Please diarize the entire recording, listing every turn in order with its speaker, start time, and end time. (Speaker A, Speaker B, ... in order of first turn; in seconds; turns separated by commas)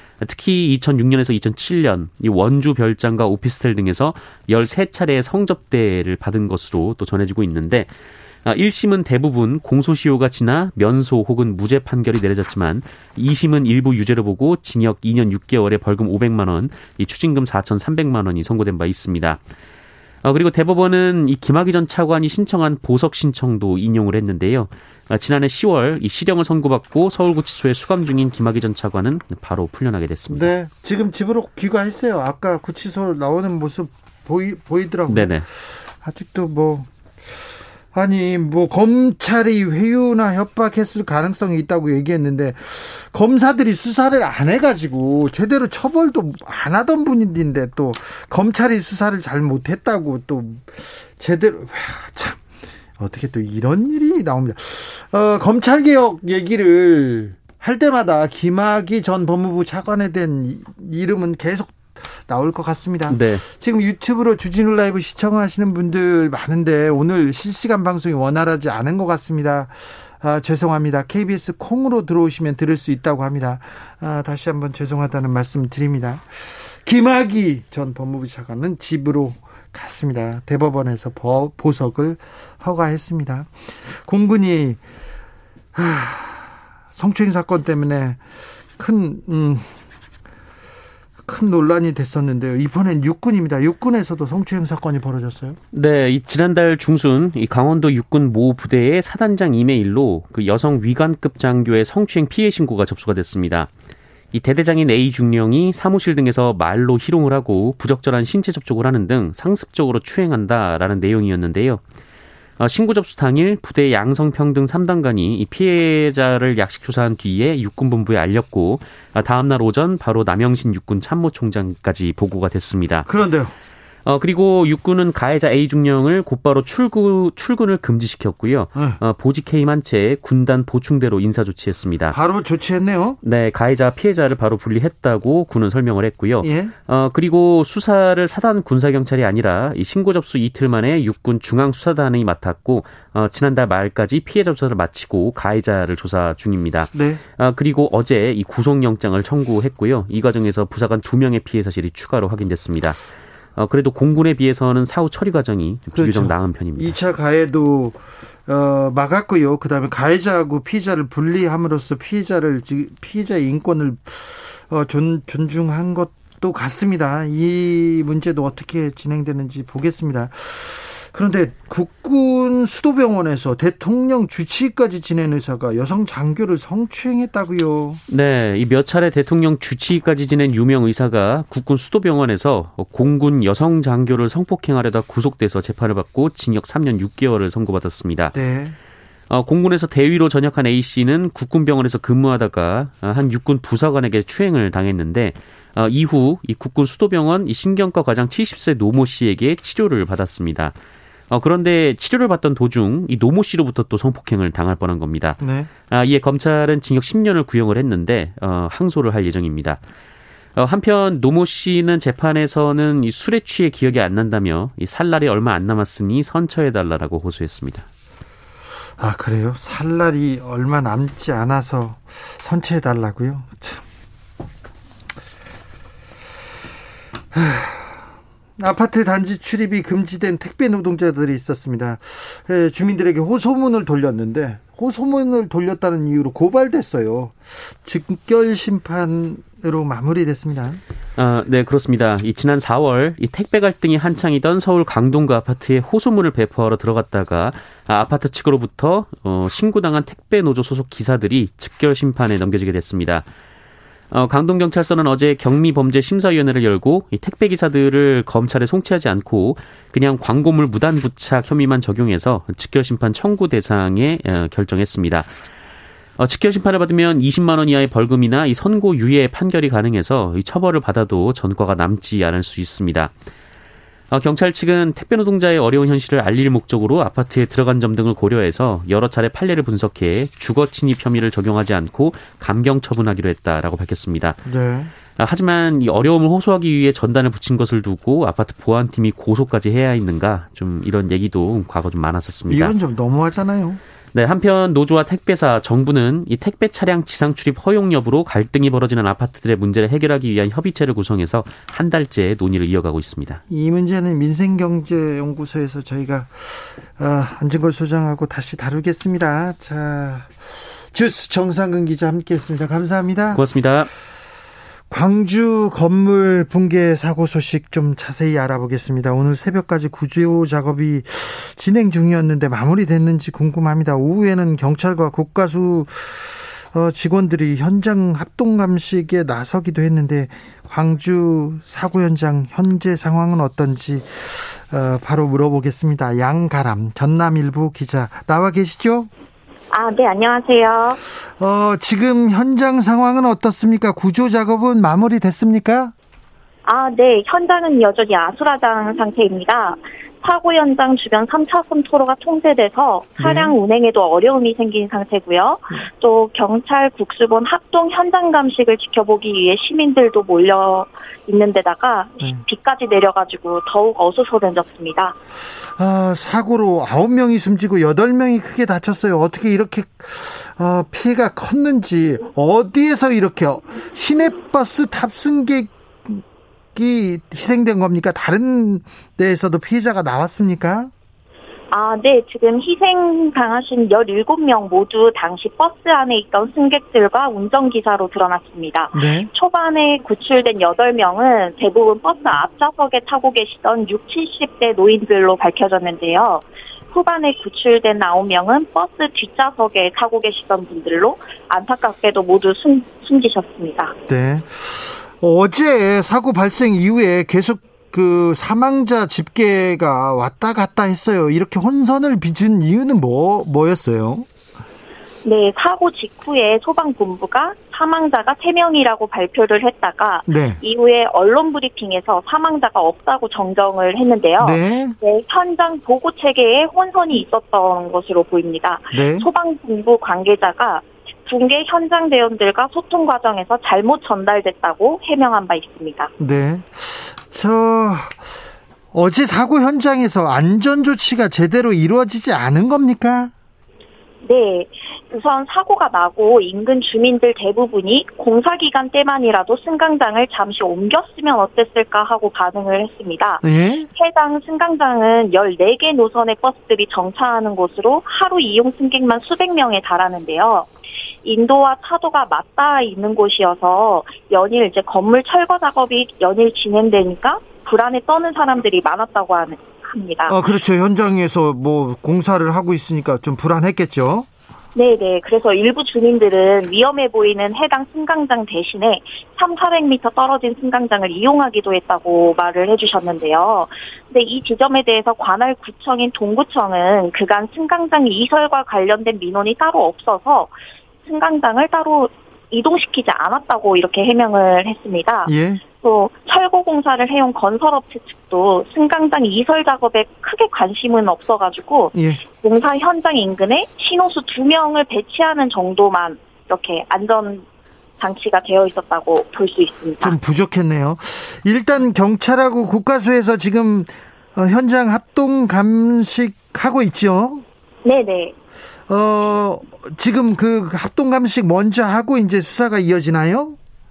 Speaker A: 0.2-7.9, Speaker A: 8.4-19.4, Speaker A: 20.2-30.5, Speaker B: 30.3-37.3, Speaker A: 35.1-35.4, Speaker B: 37.9-52.4, Speaker B: 53.0-84.8, Speaker A: 63.1-63.4, Speaker B: 85.7-88.2, Speaker B: 88.8-89.7, Speaker B: 91.2-95.6, Speaker A: 95.7-103.7, Speaker A: 104.3-111.8, Speaker A: 112.6-123.1, Speaker B: 123.0-123.5, Speaker A: 124.0-132.2, Speaker B: 132.1-133.2, Speaker A: 133.2-153.0, Speaker B: 136.4-136.7, Speaker B: 146.9-147.2, Speaker A: 153.6-156.9, Speaker B: 155.9-178.0, Speaker A: 178.1-188.3, Speaker B: 188.3-188.8, Speaker A: 189.3-200.7, Speaker A: 201.3-209.8, Speaker B: 205.4-205.7, Speaker A: 210.6-217.8, Speaker B: 219.0-223.8, Speaker B: 227.3-228.0, Speaker B: 228.6-240.8, Speaker A: 241.2-253.2, Speaker A: 254.1-265.3, Speaker A: 266.2-273.1, Speaker A: 274.1-284.4, Speaker B: 284.4-284.9, Speaker A: 285.2-292.7, Speaker B: 292.5-293.8, Speaker A: 294.1-303.4, Speaker B: 303.5-313.4, Speaker A: 313.3-313.9, Speaker B: 314.9-339.1, Speaker C: 339.7-341.0, Speaker B: 341.3-345.9, Speaker C: 346.6-365.1, Speaker B: 353.2-353.5, Speaker B: 365.8-376.2, Speaker B: 376.7-380.9, Speaker C: 381.7-403.9, Speaker B: 388.9-389.3, Speaker B: 404.1-414.3, Speaker C: 415.2-436.1, Speaker B: 420.3-420.6, Speaker B: 424.4-424.9, Speaker B: 428.9-429.3, Speaker B: 436.2-438.2, Speaker B: 438.9-443.3, Speaker C: 444.2-453.4, Speaker B: 453.4-453.9, Speaker C: 453.9-460.7, Speaker C: 461.2-470.4, Speaker B: 470.3-474.3, Speaker C: 474.7-490.5, Speaker C: 491.0-507.4, Speaker B: 495.3-495.6, Speaker B: 501.9-502.2, Speaker C: 508.0-510.1, Speaker B: 510.0-517.4, Speaker C: 517.8-518.3, Speaker B: 518.9-523.6